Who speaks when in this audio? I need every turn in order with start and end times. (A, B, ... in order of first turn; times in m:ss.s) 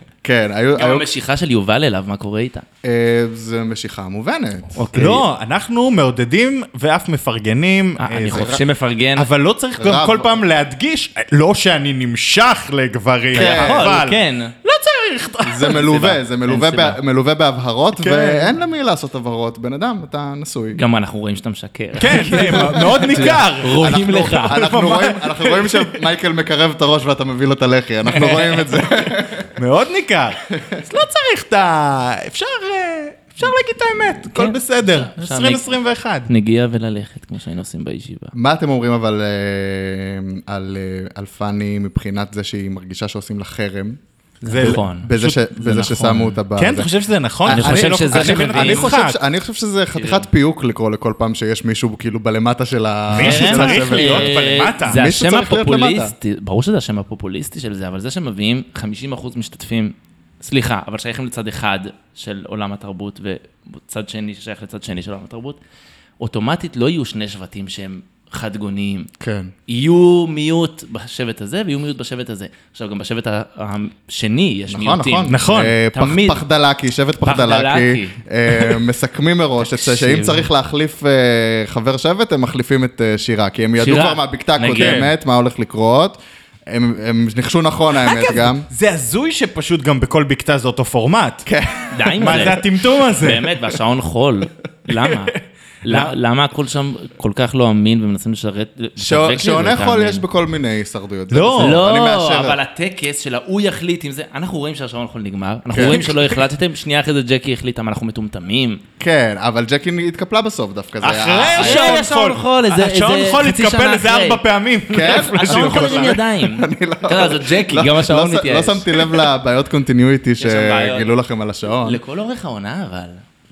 0:00.2-0:01.0 A
0:00.8-0:02.6 B
0:02.8-0:05.1 A
0:04.7-0:05.2 B
0:04.9-0:08.6 C
0:08.0-0:09.3 B
0:08.3-0:08.6 A
0:09.2-0:16.1 C
0:09.8-0:10.4 A
0:13.3-0:14.0 A
0:13.3-0:14.5 B
0:15.4-0:20.8 A
0:15.9-0:17.0 B
0:18.0-0:18.5 C
0:20.7-0:24.6 B
0:22.0-0:25.9 C
0:22.5-0:29.5 A
0:29.6-0:36.3 C
0:34.2-0:35.6 B
0:36.3-0:38.3 B
0:38.3-0:44.0 A
0:44.4-0:46.4 B
0:44.5-0:45.4 C
0:44.6-0:46.9 A
0:46.5-0:49.2 C
0:47.4-0:56.1 A
0:47.5-0:48.9 B
0:49.9-0:50.2 B
0:53.1-0:55.0 C
0:53.2-1:05.6 B
1:06.2-1:09.1 B
1:09.2-1:09.5 A
1:09.7-1:16.4 B
1:14.7-1:28.7 A
1:15.3-1:15.8 C
1:17.2-1:18.7 B
1:19.7-1:20.4 B
1:23.8-1:25.1 B
1:24.7-1:25.1 C
1:28.0-1:31.4 C
1:31.4-1:32.5 A
1:31.9-1:40.2 B
1:32.2-1:33.6 C
1:34.9-1:36.1 C
1:39.0-1:42.6 A
1:41.3-1:41.8 C
1:41.6-1:48.8 B
1:45.7-1:46.2 A
1:45.7-1:46.2 C
1:49.0-1:52.0 A
1:51.0-1:56.2 C
1:51.5-1:54.4 B
1:54.9-2:02.0 A
1:55.0-1:59.2 B
2:00.4-2:01.1 B
2:01.8-2:03.2 B